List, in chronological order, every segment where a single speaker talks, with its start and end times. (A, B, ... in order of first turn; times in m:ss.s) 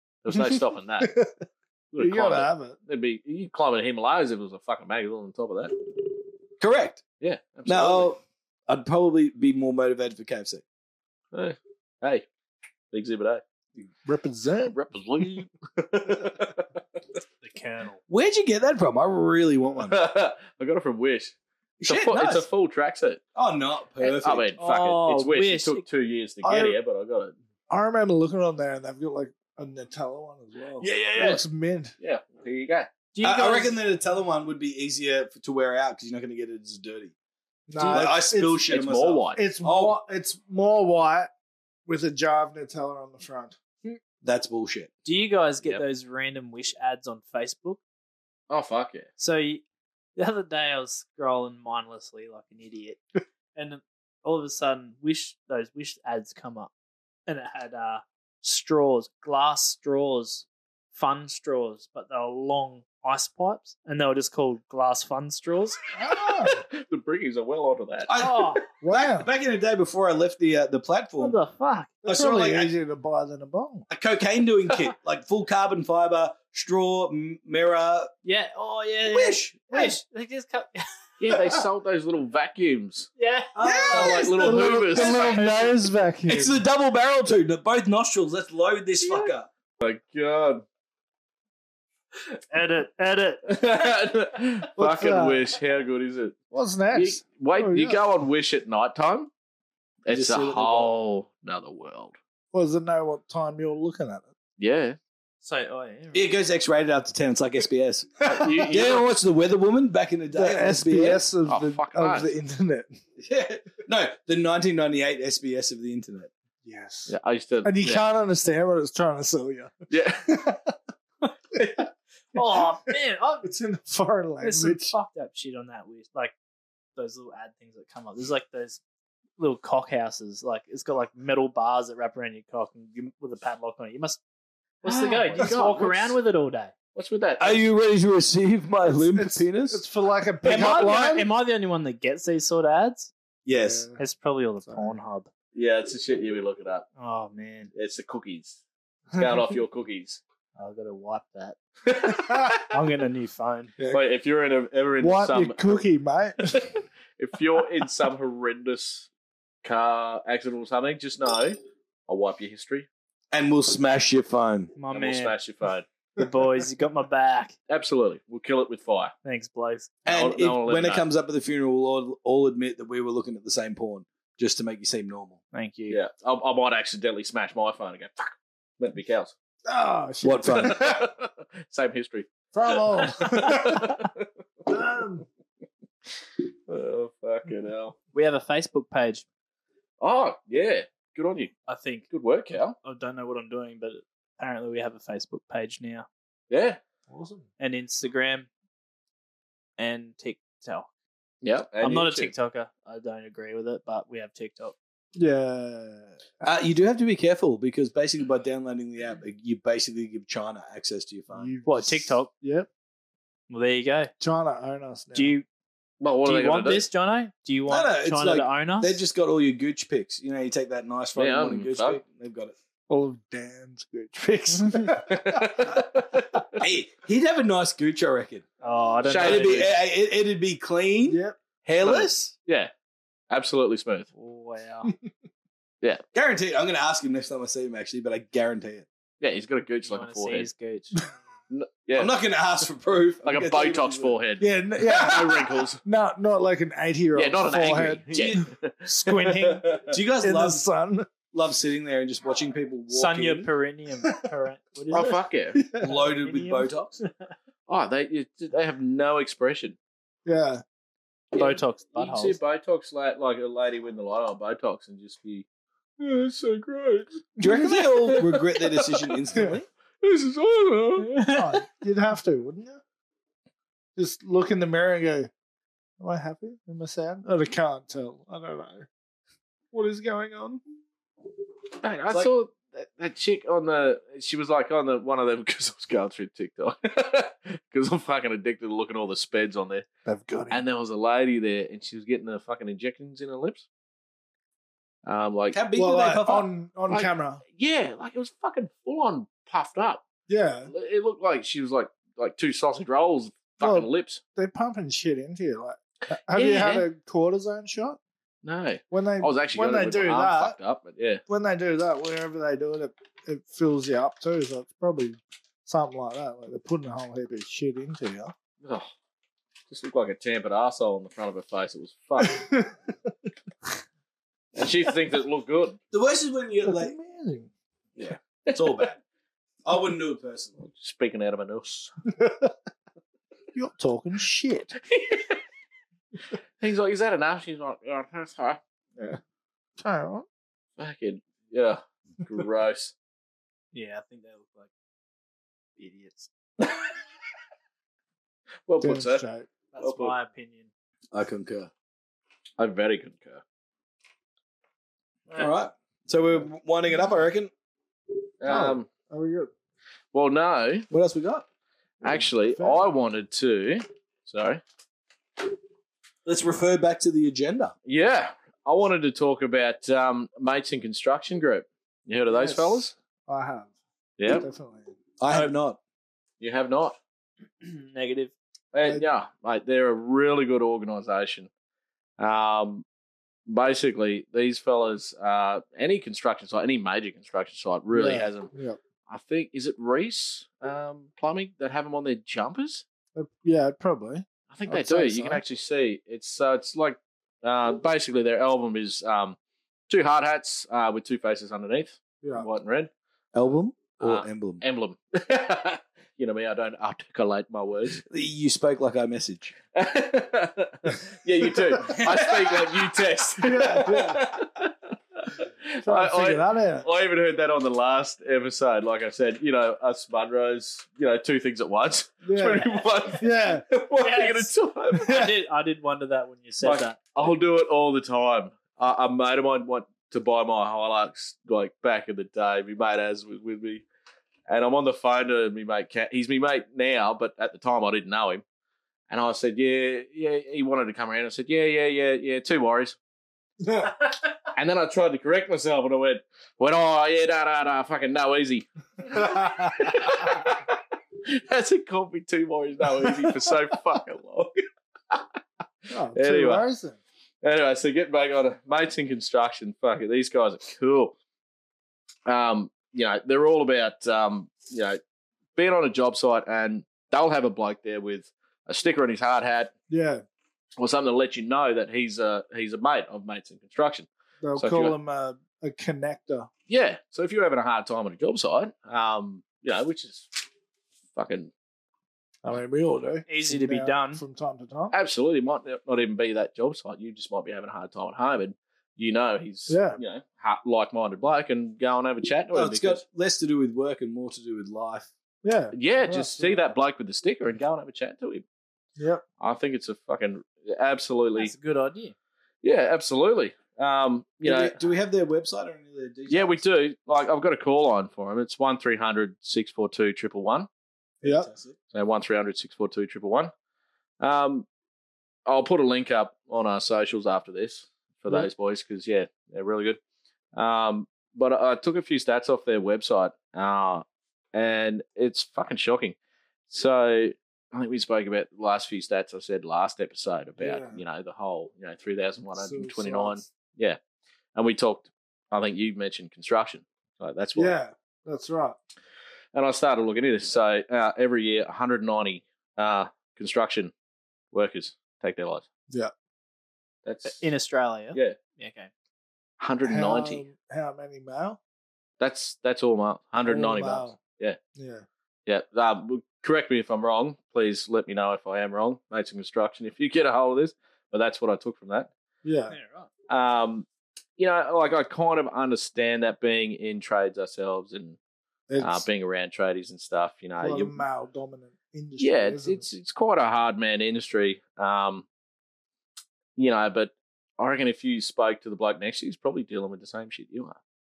0:00.2-0:01.1 A
0:00.3-0:01.4 B
0:01.9-0:05.7 A
0:02.0-0:02.8 B
0:06.6-0:07.0 C
0:07.2-0:08.2 A
0:07.7-0:10.6 C
0:11.3-0:12.3 A
0:12.9-0:13.4 A
0:14.1-0:14.8 B
0:14.7-0:16.8 A
0:17.4-0:18.0 D
0:18.1-0:20.0 C
0:19.9-0:21.4 A
0:21.8-0:22.5 C
0:21.9-0:23.2 A
0:23.4-0:24.5 C
0:24.0-0:27.4 A
0:24.6-0:25.8 D
0:26.4-0:26.8 B
0:27.7-0:31.9 B
0:30.8-0:31.4 A
0:32.0-0:32.9 A
0:33.1-0:33.8 D
0:33.2-0:37.1 C
0:37.7-0:38.7 B
0:37.8-0:40.0 C
0:38.7-0:39.4 A
0:39.4-0:41.3 B
0:41.9-0:44.0 B
0:44.2-0:44.9 C
0:45.0-0:47.8 D
0:48.5-0:49.1 A
0:49.2-0:49.6 D
0:50.2-0:53.0 D
0:53.6-0:56.7 D
0:57.3-1:05.8 D
1:05.9-1:06.6 B
1:06.1-1:08.1 A
1:08.1-1:11.4 C
1:08.2-1:08.6 D
1:08.8-1:09.3 B
1:11.2-1:12.0 D
1:12.0-1:12.7 C
1:12.0-1:13.9 B
1:13.9-1:18.1 C
1:18.2-1:21.4 D
1:19.1-1:20.0 C
1:21.2-1:23.1 A
1:23.2-1:24.0 D
1:23.6-1:25.6 C
1:23.9-1:25.6 A
1:24.2-1:26.6 B
1:26.3-1:29.5 C
1:29.8-1:30.6 A
1:32.5-1:33.4 D
1:33.5-1:36.4 A
1:34.8-1:35.4 B
1:36.5-1:38.0 B
1:36.9-1:39.3 A
1:40.1-1:42.2 A
1:40.1-1:40.9 C
1:42.5-1:44.3 B
1:44.6-1:45.0 A
1:45.4-1:46.3 D
1:46.1-1:51.3 C
1:48.2-1:49.1 A
1:50.3-1:53.0 B
1:51.4-1:52.3 A
1:53.2-1:56.3 C
1:56.6-1:57.1 B
1:57.1-1:58.0 A
1:57.6-1:59.7 B
1:59.9-2:00.3 A
2:00.2-2:00.8 B
2:02.3-2:03.5 D
2:03.4-2:05.0 B
2:04.4-2:06.3 D
2:07.0-2:08.8 D
2:09.4-2:14.2 D
2:14.8-2:16.7 D
2:14.8-2:16.2 A
2:17.0-2:17.6 A
2:17.4-2:19.8 C
2:18.9-2:21.3 B
2:20.4-2:23.1 D
2:20.5-2:20.8 C
2:23.4-2:23.9 C
2:23.6-2:24.0 B
2:24.0-2:25.3 D
2:24.7-2:24.9 B
2:25.5-2:26.9 A
2:27.0-2:27.7 D
2:27.7-2:28.6 A
2:29.1-2:29.5 B
2:29.2-2:30.2 A
2:30.6-2:31.6 D
2:31.9-2:32.6 A
2:32.7-2:33.7 D
2:33.9-2:35.8 A
2:35.0-2:36.8 B
2:36.5-2:39.1 A
2:39.6-2:42.9 A
2:43.3-2:44.7 C
2:44.8-2:45.4 D
2:44.9-2:45.8 A
2:46.2-2:47.5 D
2:47.7-2:49.1 A
2:49.2-2:49.9 D
2:50.0-2:55.4 C
2:50.1-2:51.0 A
2:55.5-2:56.0 D
2:55.9-2:59.3 A
2:59.7-3:01.0 B
3:00.2-3:00.9 C
3:00.5-3:04.2 A
3:02.5-3:04.0 B
3:04.7-3:05.3 B
3:06.7-3:08.0 A
3:08.1-3:09.2 D
3:10.0-3:11.5 A
3:11.7-3:12.1 D
3:12.1-3:12.8 A
3:12.8-3:16.1 D
3:16.5-3:16.8 A
3:17.1-3:17.5 B
3:17.6-3:18.5 D
3:19.8-3:20.9 D
3:21.4-3:22.3 A
3:21.8-3:24.8 D
3:25.2-3:26.2 B
3:26.4-3:31.5 C
3:31.3-3:32.7 B
3:31.6-3:32.3 D
3:33.5-3:34.1 D
3:34.2-3:35.4 B
3:35.1-3:35.5 D
3:36.0-3:36.9 A
3:36.2-3:39.0 D
3:37.7-3:42.6 C
3:41.2-3:42.0 A
3:42.9-3:46.0 B
3:44.8-3:46.5 A
3:46.6-3:48.4 C
3:48.6-3:49.7 D
3:49.0-3:49.8 A
3:49.1-3:52.3 C
3:51.1-3:51.4 B
3:51.8-3:52.7 A
3:53.3-3:54.1 A
3:54.2-3:54.9 D
3:56.1-3:58.9 C
3:59.2-4:00.5 A
3:59.8-4:01.0 D
4:01.5-4:02.1 A
4:02.0-4:04.2 C
4:03.2-4:05.8 A
4:04.4-4:11.1 B
4:07.2-4:09.9 A
4:08.1-4:08.5 C
4:09.9-4:10.6 C
4:11.3-4:13.5 C
4:12.9-4:15.2 D
4:14.9-4:15.6 A
4:15.6-4:16.0 B
4:15.8-4:17.0 C
4:16.2-4:17.1 D
4:17.7-4:19.8 A
4:20.3-4:20.6 B
4:21.3-4:25.4 A
4:21.4-4:22.4 D
4:26.0-4:29.2 A
4:27.4-4:27.8 B
4:27.4-4:29.7 C
4:30.0-4:31.1 A
4:31.0-4:31.6 D
4:31.3-4:32.8 B
4:34.0-4:35.3 B
4:36.0-4:38.9 B
4:39.7-4:40.6 B
4:41.8-4:49.9 A
4:50.1-4:50.6 B
4:50.5-4:53.7 A
4:55.0-4:55.6 A
4:55.5-4:56.5 C
4:55.8-4:57.4 B
4:56.9-5:00.0 A
5:00.3-5:00.7 B
5:00.7-5:04.2 A
5:03.6-5:08.0 B
5:06.4-5:06.8 A
5:06.4-5:06.8 D
5:08.4-5:11.2 A
5:08.9-5:10.6 B
5:11.3-5:18.3 B
5:18.6-5:18.9 A
5:19.7-5:22.5 A
5:22.2-5:22.8 B
5:24.6-5:25.8 A
5:25.9-5:27.0 C
5:26.7-5:27.5 B
5:28.0-5:29.0 C
5:28.5-5:28.9 A
5:29.6-5:30.6 C
5:30.7-5:31.9 A
5:32.2-5:32.5 B
5:33.5-5:34.7 B
5:34.8-5:35.4 A
5:36.6-5:38.6 A
5:39.8-5:40.3 B
5:40.8-5:42.9 A
5:43.7-5:44.7 D
5:45.8-5:46.3 D
5:46.6-5:46.9 A
5:48.7-5:49.2 A
5:48.8-5:49.5 B
5:49.7-5:50.7 D
5:49.8-5:50.2 A
5:51.1-5:51.7 C
5:52.6-5:53.4 A
5:55.3-5:57.5 C
5:58.4-5:58.9 A
5:58.5-5:59.5 B
6:00.1-6:00.9 A
6:00.9-6:01.5 C
6:02.0-6:04.6 A
6:02.0-6:02.9 B
6:06.2-6:07.7 C
6:07.9-6:12.9 A
6:12.3-6:13.7 B
6:14.2-6:14.5 A
6:14.2-6:15.0 B
6:15.2-6:15.8 C
6:16.4-6:17.0 A
6:17.6-6:18.3 D
6:18.7-6:21.5 A
6:22.2-6:22.8 A
6:23.5-6:28.5 A
6:27.9-6:28.8 B
6:29.1-6:32.8 A
6:33.2-6:35.4 B
6:34.5-6:39.4 A
6:39.9-6:42.9 A
6:42.2-6:42.5 B
6:43.3-6:44.6 C
6:44.0-6:48.0 A
6:48.0-6:49.5 C
6:49.8-7:05.3 A
6:51.9-6:52.7 C
6:53.4-6:54.2 B
6:55.8-6:56.9 B
7:02.2-7:03.6 B
7:04.0-7:04.5 D
7:05.0-7:05.2 B
7:05.1-7:07.0 D
7:06.6-7:13.8 A
7:14.5-7:18.4 A
7:19.1-7:23.0 A
7:23.6-7:23.9 B
7:24.5-7:35.2 A
7:29.1-7:29.9 B
7:35.9-7:37.0 B
7:36.1-7:36.7 A
7:37.4-7:41.1 A
7:42.3-7:45.0 A
7:45.6-7:49.7 A
7:49.9-7:50.2 B
7:50.8-7:55.0 A
7:54.4-7:56.5 B
7:56.7-8:00.4 A
8:01.2-8:01.5 A
8:02.4-8:04.9 B
8:03.3-8:04.2 D
8:04.9-8:13.0 A
8:09.7-8:10.0 B
8:12.5-8:15.1 C
8:15.4-8:16.6 B
8:15.7-8:18.4 A
8:19.0-8:19.2 B
8:19.4-8:21.5 A
8:21.4-8:22.2 D
8:22.6-8:24.8 A
8:24.4-8:26.6 C
8:26.3-8:30.7 A
8:31.2-8:31.8 C
8:31.2-8:31.5 B
8:31.9-8:33.5 A
8:34.2-8:34.7 A
8:35.5-8:40.0 A
8:40.6-8:46.2 A
8:46.7-8:54.0 A
8:50.6-8:51.0 B
8:52.6-8:53.4 B
8:54.6-8:57.8 A
8:57.6-8:58.8 B
8:59.5-9:03.9 A
9:04.5-9:05.6 A
9:07.0-9:07.4 A
9:07.3-9:08.9 D
9:09.6-9:10.4 A
9:09.8-9:11.6 B
9:12.2-9:14.6 A
9:13.5-9:14.2 B
9:14.8-9:15.0 B
9:15.5-9:22.1 A
9:22.4-9:22.8 B
9:22.7-9:23.1 D
9:23.3-9:23.9 A
9:24.4-9:28.2 A
9:28.7-9:29.0 B
9:28.8-9:31.0 A
9:30.6-9:32.8 B
9:32.2-9:35.3 A
9:36.6-9:40.8 A